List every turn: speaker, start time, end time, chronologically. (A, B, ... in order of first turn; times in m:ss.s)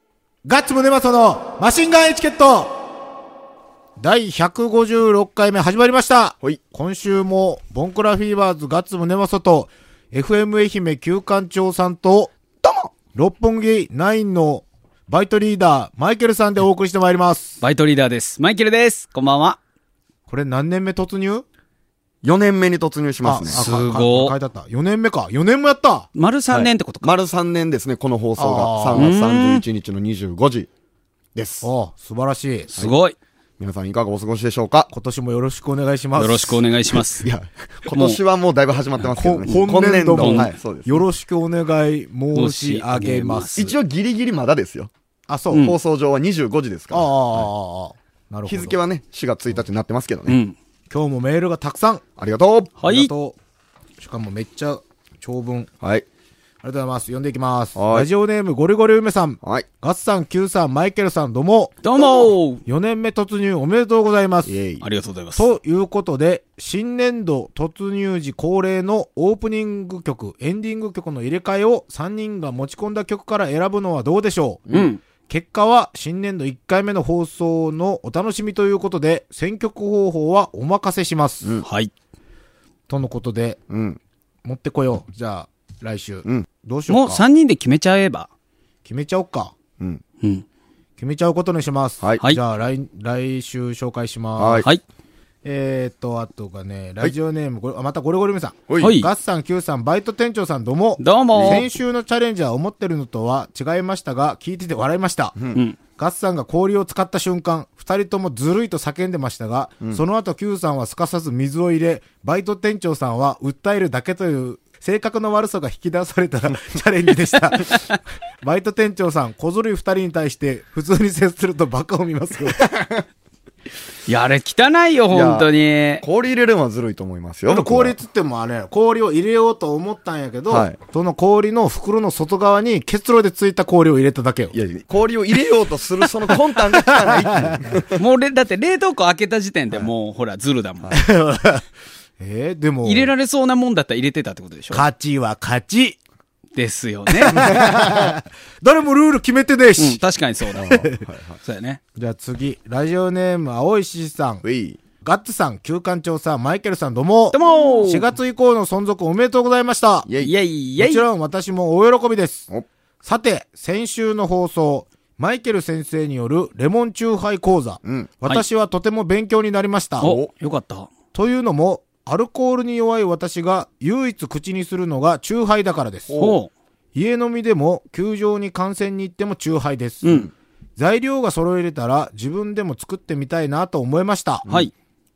0:00.4-0:02.8 A
0:04.0-0:12.3 A
0:12.6-0:12.9 B
0:13.1-0:17.6 A
0:17.6-0:19.6 C
0:20.3-0:21.4 A
0:22.2-0:23.6 B
0:23.2-0:26.1 A
0:23.5-0:24.3 C
0:26.1-0:27.1 C
0:26.5-0:30.7 B
0:28.4-0:29.1 A
0:28.9-0:29.6 C
0:31.3-0:31.7 B
0:31.6-0:32.7 A
0:32.8-0:33.2 C
0:33.6-0:34.9 B
0:34.9-0:36.6 A
0:36.2-0:37.3 C
0:37.2-0:41.0 B
0:37.9-0:38.2 C
0:39.1-0:43.7 A
0:40.2-0:40.6 C
0:42.3-0:43.7 C
0:43.6-0:44.9 B
0:45.3-0:45.7 A
0:45.5-0:47.4 B
0:46.9-0:48.8 A
0:48.4-0:50.4 B
0:50.3-0:50.6 C
0:50.9-0:52.0 A
0:52.2-0:52.8 B
0:52.8-0:53.1 C
0:52.9-0:53.4 A
0:54.0-0:55.7 A
0:56.6-1:01.8 A
0:57.7-0:58.1 B
0:59.4-0:59.7 B
1:01.8-1:02.6 C
1:02.6-1:04.5 A
1:04.5-1:04.8 B
1:04.8-1:05.5 C
1:05.4-1:14.7 A
1:14.7-1:15.0 C
1:15.3-1:21.6 A
1:21.6-1:21.9 C
1:22.9-1:23.6 A
1:23.7-1:24.0 B
1:24.4-1:27.2 A
1:26.9-1:28.3 C
1:28.8-1:29.5 A
1:31.0-1:34.7 A
1:34.4-1:34.7 B
1:35.4-1:45.3 A
1:38.8-1:39.1 C
1:41.0-1:41.6 C
1:41.3-1:41.6 B
1:45.4-1:45.6 B
1:46.0-1:57.8 A
1:58.4-2:02.7 A
2:02.6-2:03.0 B
2:04.1-2:06.0 C
2:05.1-2:05.5 B
2:06.0-2:07.9 B
2:07.5-2:14.5 A
2:10.5-2:10.8 B
2:14.5-2:18.0 B
2:16.8-2:17.6 A
2:18.0-2:21.0 C
2:20.9-2:21.7 A
2:22.2-2:23.1 A
2:22.8-2:24.8 C
2:24.7-2:26.0 A
2:26.6-2:27.4 C
2:27.1-2:30.0 A
2:27.3-2:28.1 B
2:29.8-2:30.7 C
2:30.5-2:31.4 B
2:30.6-2:31.0 A
2:31.4-2:31.8 C
2:32.0-2:34.4 A
2:34.4-2:34.8 B
2:35.0-2:40.1 A
2:37.3-2:38.1 C
2:40.0-2:40.3 B
2:40.2-2:41.0 C
2:40.8-2:42.5 A
2:43.0-2:50.1 A
2:47.8-2:48.1 B
2:50.0-2:50.9 C
2:50.0-2:50.3 B
2:51.1-2:56.1 A
2:56.1-2:56.4 B
2:56.2-2:56.5 C
2:56.9-3:00.2 A
3:00.0-3:00.3 C
3:00.8-3:04.4 A
3:04.4-3:04.7 B